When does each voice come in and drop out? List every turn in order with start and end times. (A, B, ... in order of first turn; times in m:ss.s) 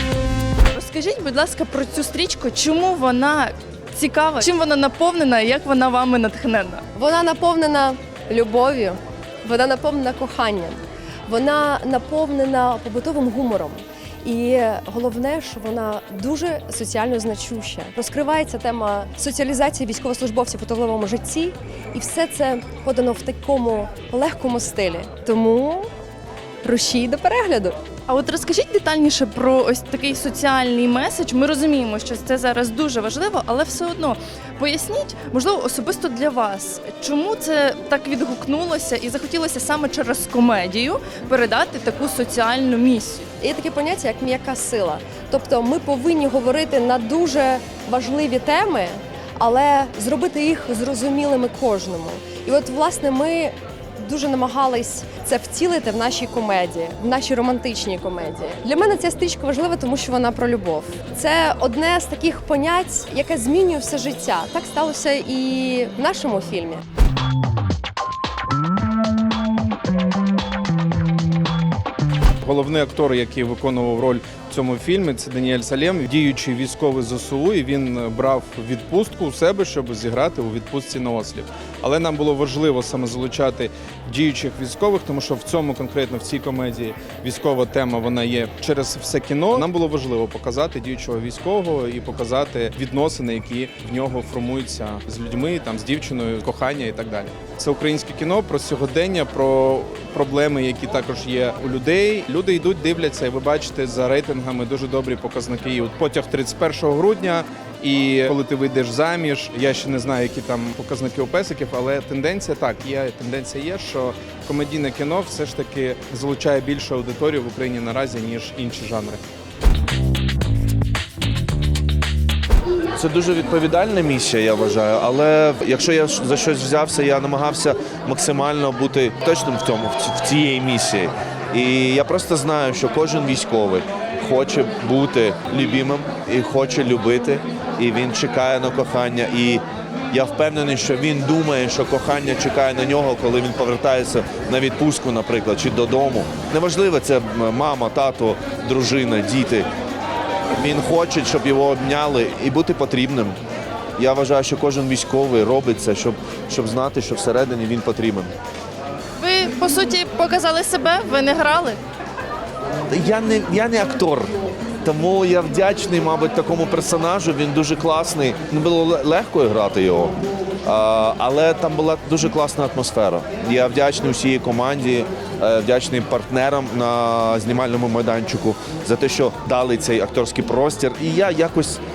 0:00.6-0:06.8 A
0:06.9-0:25.9 B
0:26.6-0:27.8 B
0:28.1-0:43.2 A
0:43.4-1:06.8 B
1:12.4-1:59.2 C
2:02.9-2:29.7 D
2:30.5-2:33.4 D
2:34.0-2:38.3 D
2:39.2-2:41.8 A
2:42.9-2:44.3 D
2:44.8-3:01.8 D